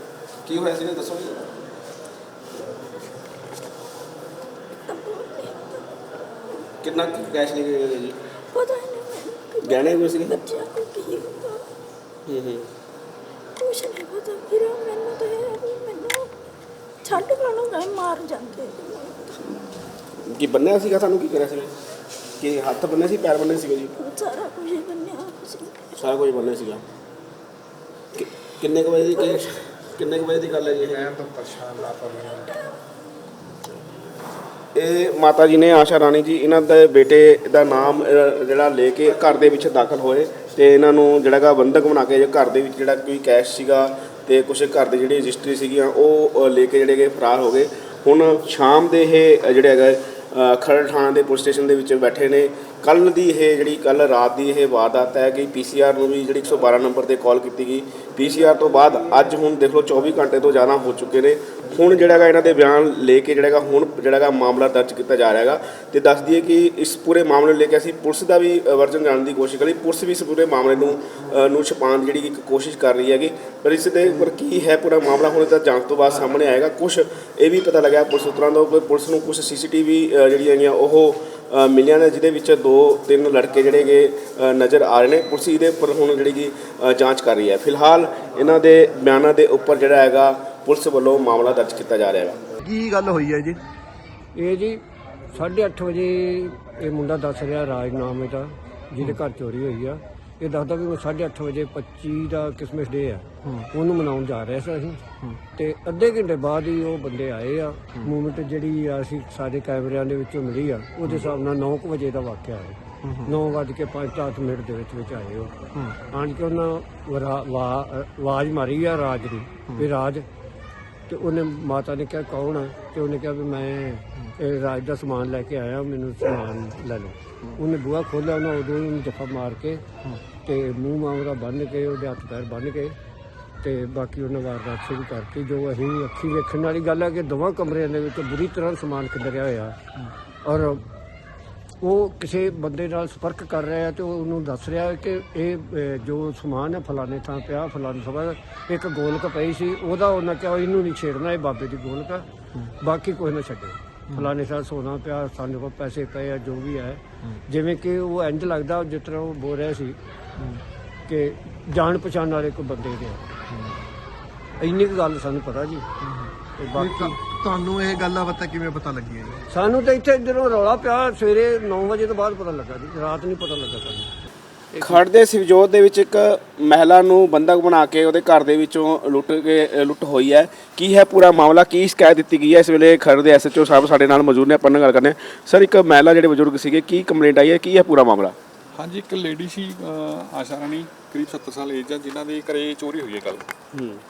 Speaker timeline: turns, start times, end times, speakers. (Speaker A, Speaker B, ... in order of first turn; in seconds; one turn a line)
Speaker A: 0.5-1.5
Speaker B: 4.9-5.9
Speaker A: 6.8-8.2
Speaker B: 8.5-11.7
Speaker A: 9.6-10.4
Speaker A: 12.3-12.7
Speaker B: 13.6-16.4
Speaker B: 17.0-19.4
Speaker A: 20.2-21.7
Speaker A: 22.4-23.9
Speaker B: 24.0-26.0
Speaker A: 26.0-26.9
Speaker A: 28.1-31.6
Speaker C: 31.3-32.4
Speaker A: 34.7-92.4
Speaker C: 92.6-93.6
Speaker D: 94.3-105.0
Speaker D: 105.5-120.3
Speaker C: 113.0-113.3
Speaker D: 121.1-129.9
Speaker D: 130.4-133.0
Speaker D: 133.6-139.8
Speaker D: 140.4-140.8
Speaker D: 141.8-160.0
Speaker D: 161.1-163.3
Speaker D: 164.6-165.9
Speaker C: 166.0-169.4
Speaker D: 166.6-167.2
Speaker D: 169.5-174.1
Speaker A: 174.8-188.3
Speaker E: 188.8-193.5
Speaker A: 193.7-194.0